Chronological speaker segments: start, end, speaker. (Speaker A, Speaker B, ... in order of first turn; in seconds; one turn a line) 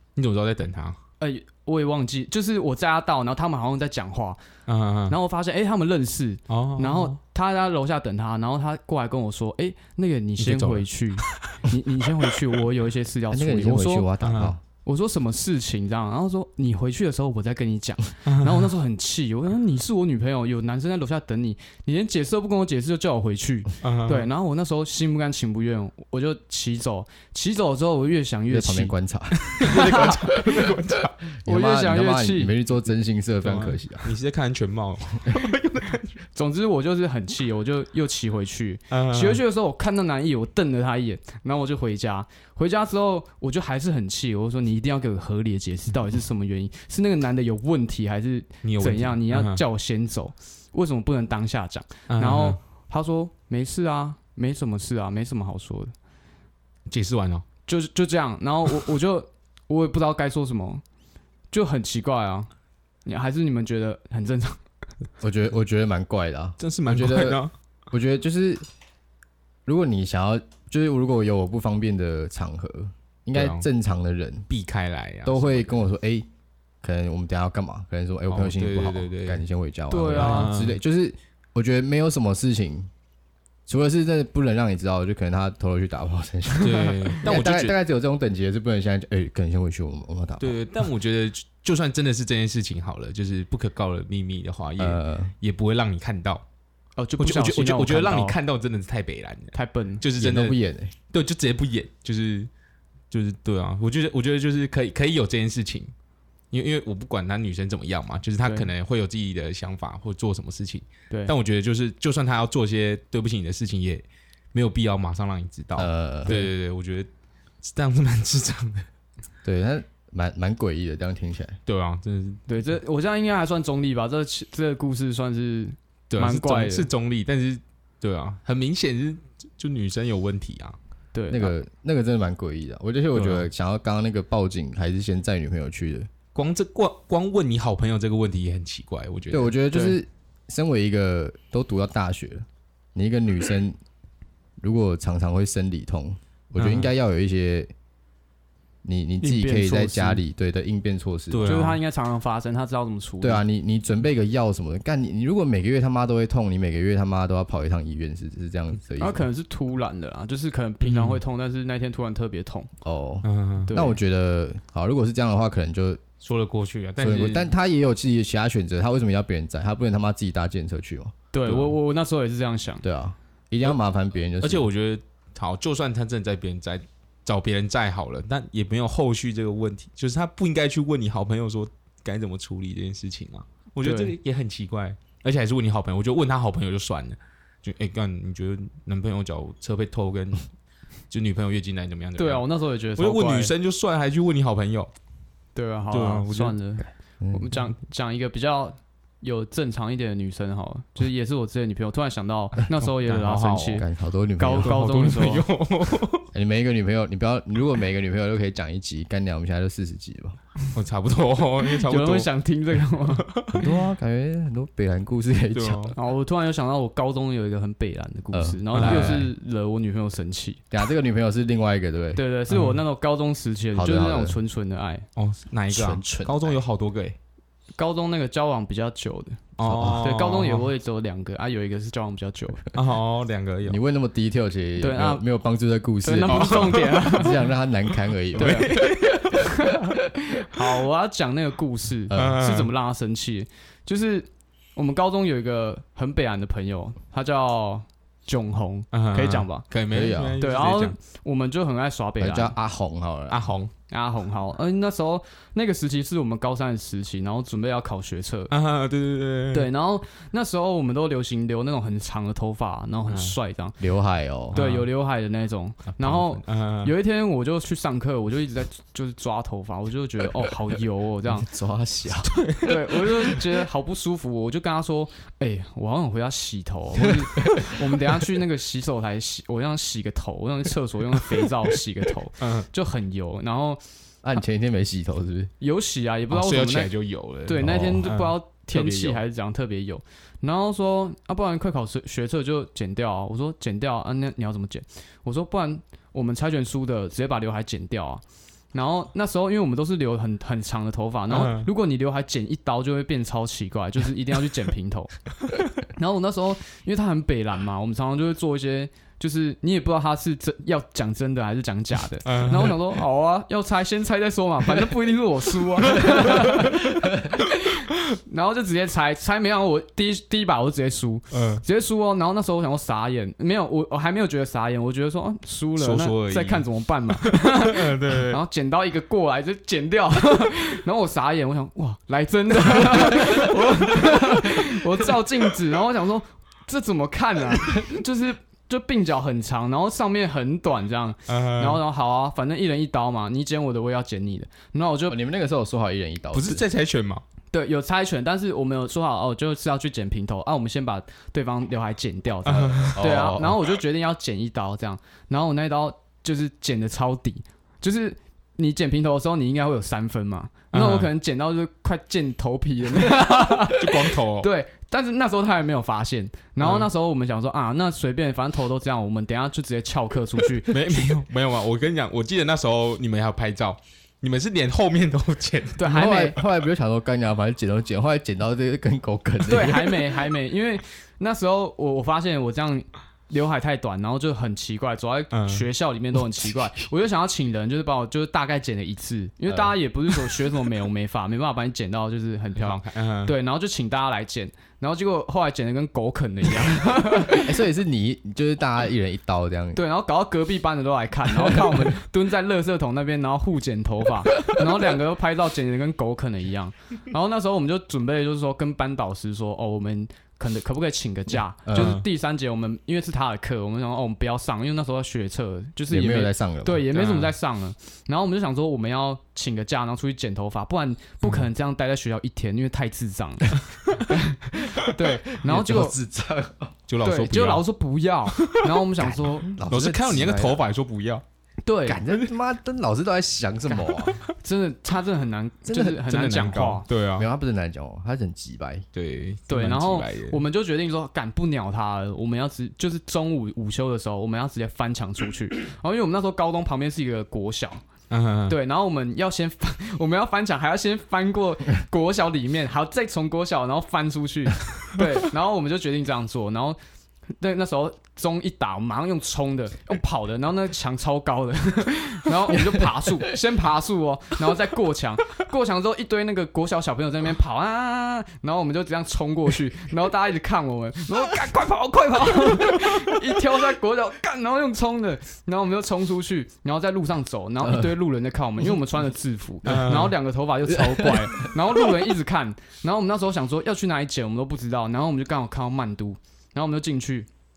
Speaker A: 0.2-1.0
Speaker B: 1.2-4.4
Speaker A: 4.7-5.2
Speaker B: 5.1-14.1
Speaker A: 6.5-7.2
Speaker A: 10.4-11.6
Speaker C: 13.3-14.6
Speaker A: 14.2-14.6
Speaker B: 14.8-28.9
Speaker A: 18.3-18.7
Speaker A: 23.8-24.3
Speaker C: 28.5-29.6
Speaker A: 29.4-31.2
Speaker B: 29.6-30.5
Speaker C: 31.4-34.1
Speaker B: 31.4-32.5
Speaker A: 33.4-36.1
Speaker B: 36.4-55.9
Speaker A: 38.9-39.4
Speaker A: 48.6-49.6
Speaker A: 52.1-52.6
Speaker A: 56.9-57.4
Speaker B: 57.7-60.8
Speaker B: 61.5-62.5
Speaker B: 63.1-64.6
Speaker C: 65.2-68.6
Speaker A: 66.6-67.5
Speaker C: 69.7-74.5
Speaker A: 73.3-73.7
Speaker A: 74.5-75.8
Speaker C: 75.2-76.3
Speaker C: 76.8-82.9
Speaker A: 78.3-79.4
Speaker B: 79.9-80.6
Speaker A: 80.1-80.8
Speaker C: 83.7-90.6
Speaker A: 86.6-87.8
Speaker A: 90.4-96.4
Speaker C: 94.8-95.3
Speaker B: 97.0-98.4
Speaker A: 97.2-100.6
Speaker B: 99.5-100.0
Speaker C: 100.2-100.9
Speaker A: 101.1-102.5
Speaker A: 103.1-105.9
Speaker A: 106.5-117.1
Speaker B: 108.4-108.7
Speaker C: 115.8-116.3
Speaker A: 117.6-118.9
Speaker C: 119.4-121.6
Speaker A: 121.7-122.4
Speaker B: 122.5-126.9
Speaker A: 126.1-130.8
Speaker B: 131.1-131.6
Speaker C: 131.3-136.1
Speaker A: 133.1-133.5
Speaker A: 136.3-139.5
Speaker C: 139.3-143.8
Speaker B: 139.7-140.0
Speaker C: 144.6-147.7
Speaker A: 146.6-146.9
Speaker C: 148.8-151.6
Speaker B: 149.2-150.2
Speaker A: 151.3-151.8
Speaker B: 151.4-153.4
Speaker C: 153.2-159.3
Speaker B: 159.0-162.7
Speaker A: 160.8-161.2
Speaker C: 162.8-166.0
Speaker A: 163.2-163.7
Speaker B: 163.7-164.0
Speaker A: 166.2-167.5
Speaker C: 167.0-171.1
Speaker B: 171.3-172.8
Speaker A: 171.4-171.8
Speaker C: 172.8-174.7
Speaker A: 174.4-190.5
Speaker B: 183.8-184.2
Speaker A: 191.1-194.9
Speaker B: 192.2-193.5
Speaker B: 195.6-203.9
Speaker A: 195.9-196.6
Speaker C: 197.2-197.5
Speaker A: 202.9-203.8
Speaker C: 203.8-204.8
Speaker B: 204.4-205.5
Speaker A: 204.6-206.3
Speaker C: 206.3-210.4
Speaker A: 210.7-212.3
Speaker B: 211.7-213.3
Speaker A: 213.1-213.6
Speaker C: 213.6-215.9
Speaker A: 215.6-216.0
Speaker B: 216.0-220.6
Speaker C: 218.3-219.3
Speaker A: 218.7-219.3
Speaker C: 220.7-222.2
Speaker B: 222.2-225.1
Speaker A: 222.5-222.8
Speaker C: 223.8-224.4
Speaker A: 225.2-227.2
Speaker C: 225.7-226.6
Speaker B: 227.8-232.7
Speaker A: 229.6-230.7
Speaker C: 229.7-230.0
Speaker A: 232.7-233.8
Speaker C: 233.7-238.7
Speaker B: 234.8-235.2
Speaker B: 236.0-237.5
Speaker A: 236.3-237.3
Speaker A: 238.3-239.5
Speaker B: 238.3-249.7
Speaker C: 242.1-242.4
Speaker A: 242.1-242.7
Speaker A: 248.9-251.0
Speaker C: 249.9-250.4
Speaker B: 250.4-252.6
Speaker C: 252.2-253.4
Speaker A: 253.3-253.7
Speaker B: 253.9-258.5
Speaker A: 258.5-259.7
Speaker B: 259.5-263.8
Speaker A: 263.1-263.4
Speaker C: 263.8-264.6
Speaker A: 264.5-264.9
Speaker B: 264.5-271.5
Speaker A: 266.0-266.9
Speaker C: 271.3-272.3
Speaker A: 272.2-273.4
Speaker B: 272.6-283.8
Speaker C: 277.0-277.8
Speaker A: 282.4-282.7
Speaker C: 284.2-285.5
Speaker B: 285.6-286.9
Speaker A: 286.3-289.2
Speaker B: 287.5-298.2
Speaker C: 287.6-288.1
Speaker B: 298.7-305.2
Speaker A: 301.3-301.7
Speaker B: 305.8-345.2
Speaker A: 312.2-312.8
Speaker A: 316.0-316.7
Speaker A: 321.3-321.6
Speaker A: 325.8-326.6
Speaker A: 327.2-328.4
Speaker A: 341.3-341.8
Speaker C: 345.1-346.6
Speaker A: 346.3-347.2
Speaker B: 347.5-371.1
Speaker A: 352.4-353.5
Speaker C: 352.9-353.6
Speaker A: 360.7-361.1
Speaker A: 363.5-364.5
Speaker A: 366.6-366.9
Speaker A: 370.7-376.1
Speaker B: 375.8-376.4
Speaker C: 375.9-380.2
Speaker B: 379.5-397.6
Speaker A: 385.3-385.6
Speaker A: 392.6-393.4
Speaker C: 397.3-399.8
Speaker B: 399.8-426.0
Speaker C: 411.6-412.0
Speaker A: 411.7-412.0
Speaker C: 415.9-416.9
Speaker A: 416.9-417.3
Speaker C: 425.3-426.7
Speaker A: 426.9-427.6
Speaker B: 427.0-429.5
Speaker A: 428.3-428.6
Speaker C: 429.0-430.6
Speaker A: 429.7-431.2
Speaker B: 431.6-432.0
Speaker C: 431.9-434.2
Speaker B: 434.4-436.9
Speaker C: 435.7-436.0
Speaker A: 436.1-437.3
Speaker C: 437.2-438.9
Speaker A: 438.9-440.4
Speaker B: 439.5-447.8
Speaker A: 448.1-448.6
Speaker B: 448.5-456.8
Speaker B: 457.4-487.3
Speaker C: 462.5-462.8
Speaker C: 477.6-477.9
Speaker A: 479.6-480.2
Speaker C: 480.7-481.6